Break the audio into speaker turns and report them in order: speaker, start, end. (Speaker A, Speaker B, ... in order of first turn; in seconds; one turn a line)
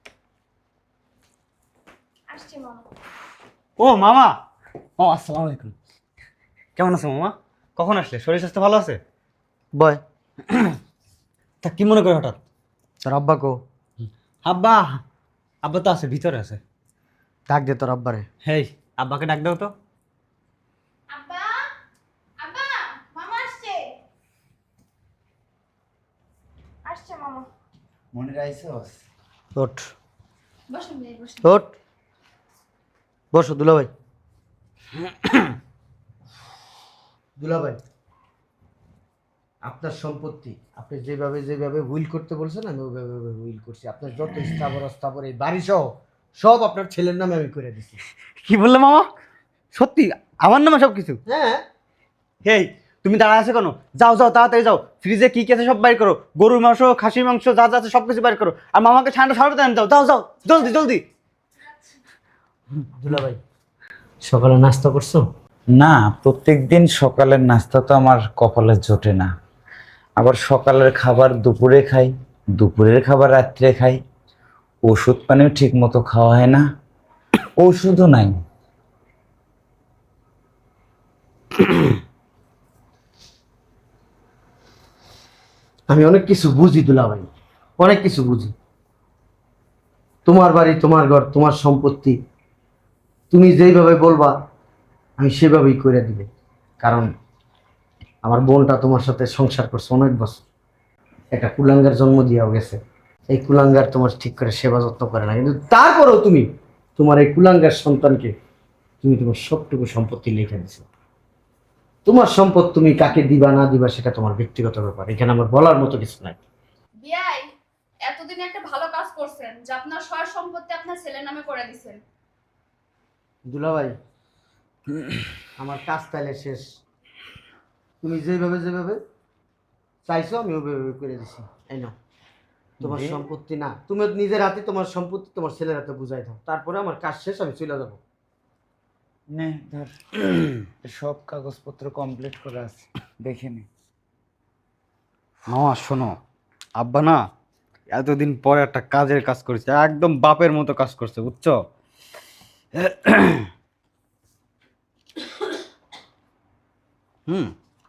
Speaker A: 2.3-2.9
Speaker B: 3.8-4.3
Speaker B: 5.0-5.8
Speaker B: 6.8-9.0
Speaker C: 9.8-10.0
Speaker B: 10.5-10.8
Speaker B: 11.6-12.4
Speaker C: 13.0-13.6
Speaker B: 14.4-15.0
Speaker B: 15.6-16.6
Speaker C: 17.5-18.3
Speaker B: 18.4-19.7
Speaker A: 21.1-21.6
Speaker A: 22.4-23.9
Speaker A: 26.9-27.5
Speaker D: 28.1-28.9
Speaker C: 29.6-29.9
Speaker A: 30.7-31.5
Speaker C: 31.4-31.7
Speaker C: 33.3-33.9
Speaker C: 37.4-37.8
Speaker C: 39.6-48.0
Speaker B: 48.5-49.1
Speaker B: 49.7-51.2
Speaker C: 51.3-51.6
Speaker B: 52.5-61.0
Speaker C: 63.0-63.4
Speaker C: 64.2-65.2
Speaker D: 65.7-69.3
Speaker D: 70.2-74.0
Speaker D: 74.9-76.6
Speaker D: 77.6-78.3
Speaker C: 85.9-87.3
Speaker C: 87.8-88.5
Speaker C: 90.3-92.2
Speaker C: 93.3-94.3
Speaker C: 95.2-96.3
Speaker C: 96.8-97.1
Speaker C: 98.2-100.4
Speaker C: 101.3-102.8
Speaker C: 103.3-106.5
Speaker C: 107.0-108.3
Speaker C: 109.0-110.9
Speaker C: 112.1-116.4
Speaker E: 117.0-117.5
Speaker E: 118.1-122.0
Speaker C: 123.5-123.9
Speaker C: 125.6-126.6
Speaker C: 128.0-129.0
Speaker C: 130.1-131.9
Speaker D: 132.8-133.2
Speaker C: 132.8-138.0
Speaker D: 139.3-139.9
Speaker D: 140.8-143.7
Speaker B: 145.5-146.2
Speaker B: 146.8-147.2
Speaker B: 147.9-151.6
Speaker B: 152.8-153.5
Speaker B: 157.3-157.5